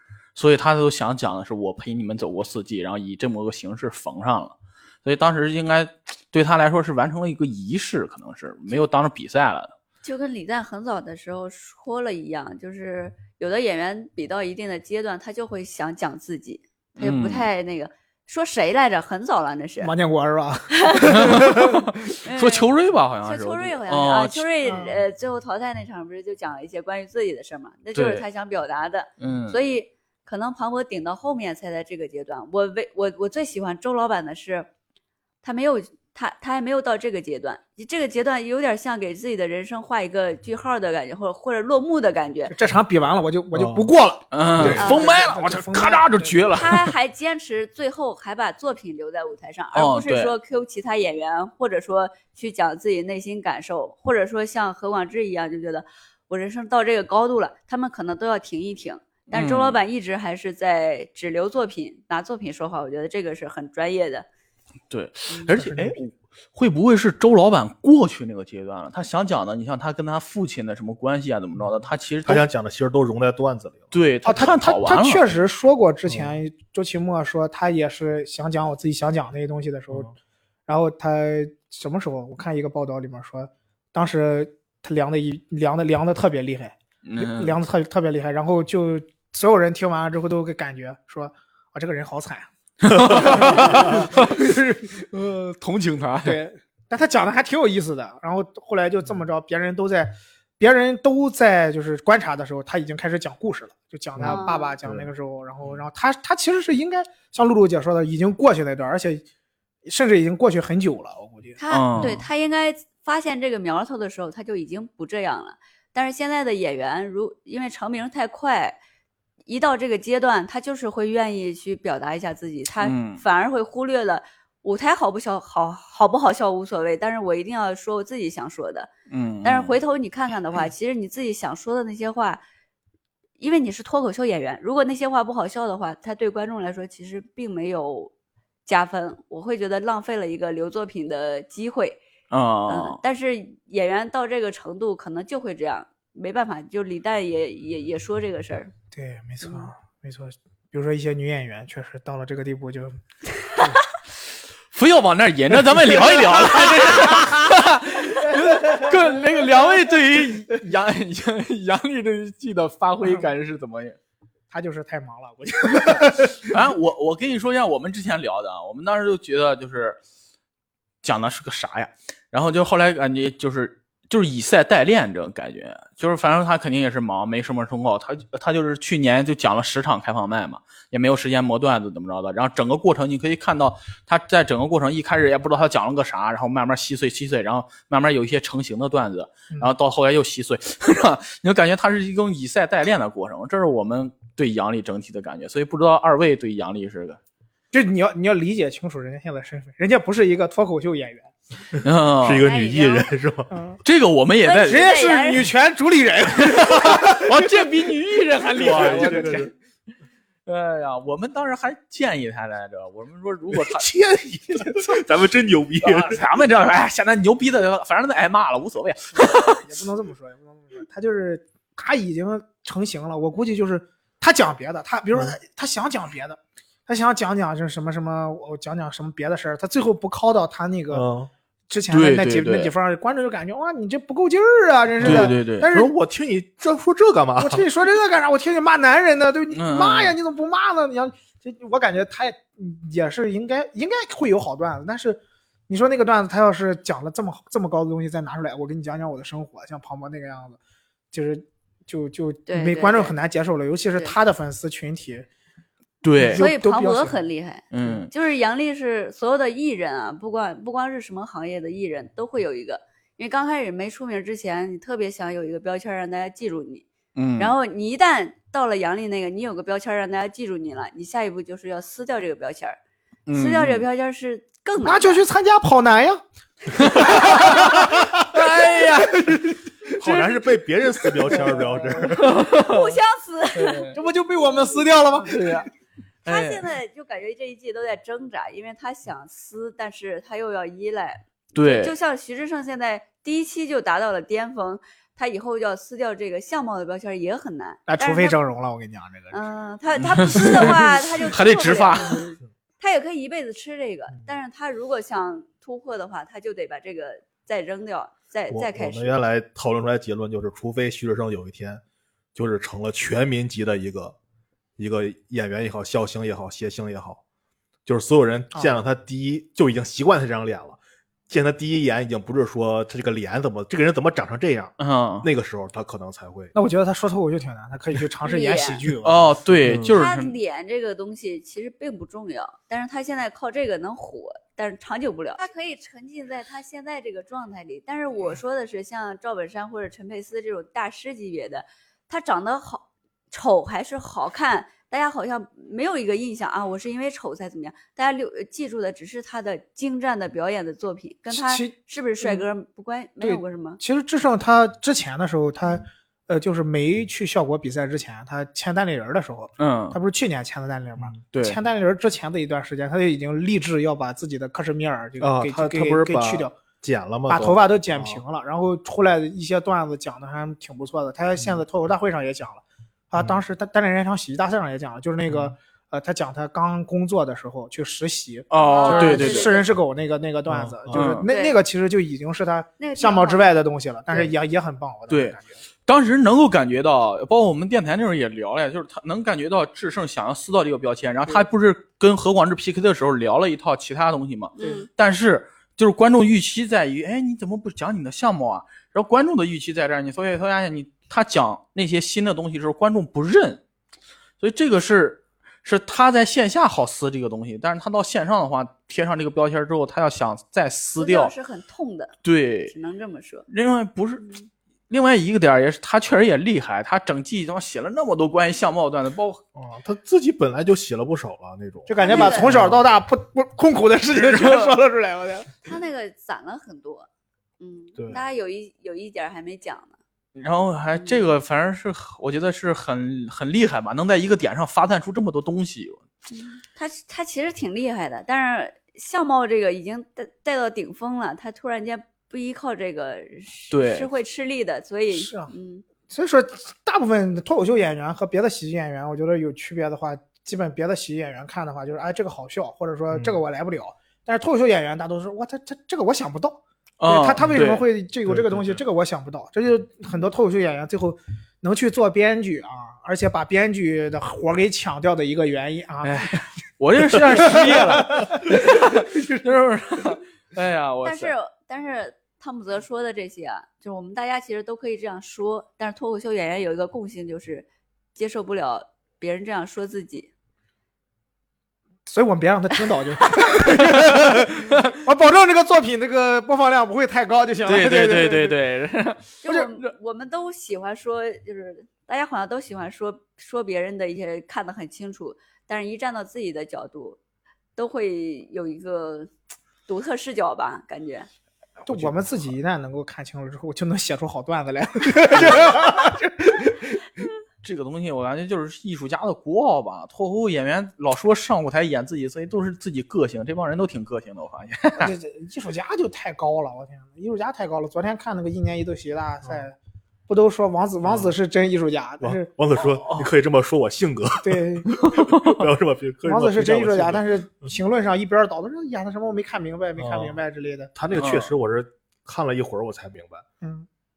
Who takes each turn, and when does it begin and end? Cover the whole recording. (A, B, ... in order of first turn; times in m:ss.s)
0:00.4-0:09.7 A
0:10.0-0:19.9 B
0:17.0-0:17.5 A
0:19.8-0:21.9 C
0:20.7-0:21.7 B
0:21.1-0:24.4 A
0:22.2-0:34.7 B
0:24.6-0:25.0 C
0:27.9-0:28.2 A
0:29.2-0:29.6 A
0:35.4-0:42.5 B
0:42.5-0:46.4 C
0:43.5-0:43.9 D
0:44.3-0:46.9 A
0:44.6-0:44.9 D
0:44.8-0:45.2 B
0:46.5-1:04.2 B
0:49.7-0:50.3 A
0:59.3-0:59.8 A
1:04.9-1:12.4 A
1:05.5-1:06.0 C
1:12.2-1:13.9 D
1:13.9-1:15.2 A
1:14.2-1:20.1 C
1:16.1-1:16.4 D
1:20.7-1:34.6 C
1:27.0-1:27.6 A
1:32.8-1:36.4 A
1:36.2-1:49.2 C
1:44.2-1:44.7 B
1:49.8-1:51.6 C
1:51.6-1:58.8 B
1:51.7-1:52.2 A
1:59.5-2:08.9 B
2:02.8-2:03.2 A
2:09.1-2:09.8 A
2:09.4-2:12.4 B
2:13.4-2:18.1 B
2:18.6-2:22.0 B
2:22.3-2:23.0 A
2:22.7-2:28.7 B
2:28.9-2:33.8 C
2:34.7-2:44.0 A
2:35.9-2:36.3 C
2:43.0-2:43.3 C
2:44.5-2:46.5 C
2:46.4-2:50.0 A
2:51.0-3:17.2 A
3:17.7-3:21.3 C
3:21.8-3:23.5 D
3:21.8-3:22.4 A
3:22.4-3:23.1 B
3:23.5-3:23.8 C
3:23.8-3:24.9 A
3:24.4-3:25.4 B
3:24.7-3:27.6 C
3:26.4-3:29.5 A
3:28.6-3:29.5 D
3:28.6-3:29.4 C
3:30.4-3:33.9 A
3:33.5-3:36.2 D
3:34.5-3:34.9 A
3:35.8-3:39.6 A
3:39.2-3:51.0 C
3:50.9-3:51.3 D
3:51.7-3:55.9 C
3:51.9-3:52.7 A
3:55.0-3:57.6 D
3:55.0-3:55.6 A
3:57.4-4:10.6 C
3:59.5-4:00.2 A
4:11.1-4:15.3 C
4:12.5-4:13.1 B
4:16.0-4:16.4 A
4:16.2-4:17.2 C
4:16.3-4:26.8 B
4:17.7-4:18.1 A
4:27.1-4:27.5 A
4:27.4-4:32.8 B
4:33.3-4:33.8 A
4:33.3-4:35.2 B
4:34.8-4:39.4 C
4:36.7-4:39.6 A
4:37.0-4:37.7 B
4:40.0-4:42.4 D
4:41.3-4:41.7 C
4:42.1-4:43.0 A
4:42.4-4:44.0 B
4:43.5-4:44.0 A
4:43.9-4:45.6 C
4:45.2-4:45.7 A
4:46.2-4:46.6 A
4:46.2-4:58.4 B
4:51.5-4:51.9 A
4:57.9-4:59.4 C
4:59.3-5:09.2 B
5:00.0-5:02.3 A
5:08.5-5:11.8 D
5:12.3-5:14.2 D
5:14.8-5:17.2 D
5:17.8-5:26.5 D
5:24.8-5:25.3 A
5:26.5-5:29.3 C
5:28.2-5:28.8 B
5:29.0-5:30.3 A
5:29.6-5:30.0 D
5:29.9-5:53.8 B
5:51.3-5:52.4 C
5:53.2-6:06.5 C
5:59.6-6:00.0 A
6:01.3-6:01.6 A
6:05.2-6:08.2 D
6:07.3-6:25.6 C
6:15.3-6:15.5 D
6:18.5-6:19.6 A
6:18.6-6:19.6 B
6:20.5-6:21.2 D
6:20.9-6:21.3 A
6:21.2-6:21.6 B
6:22.8-6:23.5 B
6:25.1-6:43.6 A
6:34.6-6:34.9 B
6:44.4-6:51.3 A
6:51.0-6:52.2 B
6:52.2-6:52.7 A
6:52.7-6:53.5 B
6:53.5-6:54.3 A
6:54.2-6:54.5 B
6:54.9-6:59.4 A
6:59.5-7:02.8 D
7:01.9-7:05.5 C
7:02.0-7:02.5 B
7:04.1-7:04.7 A
7:05.6-7:07.1 B
7:07.6-7:10.0 B
7:10.3-7:16.0 A
7:10.9-7:11.3 B
7:16.3-7:25.8 B
7:23.7-7:24.1 A
7:25.1-7:25.5 C
7:26.1-7:46.3 C
7:33.1-7:33.4 D
7:37.0-7:37.8 A
7:38.3-7:38.8 D
7:46.0-7:51.3 A
7:47.1-7:48.7 C
7:51.0-8:00.3 B
8:02.0-8:08.6 C
8:03.6-8:04.4 A
8:07.6-8:09.9 A
8:09.4-8:17.2 B
8:17.8-8:19.3 B
8:19.9-8:21.3 B
8:21.8-8:27.2 C
8:21.9-8:22.5 D
8:25.4-8:25.6 D
8:27.6-8:35.1 A
8:35.0-8:39.8 C
8:40.3-8:42.5 C
8:41.0-8:41.3 D
8:42.2-8:47.2 D
8:44.4-8:44.9 C
8:45.0-8:45.6 A
8:46.2-8:50.9 C
8:50.0-8:50.4 D
8:51.0-8:53.4 D
8:51.1-8:51.5 A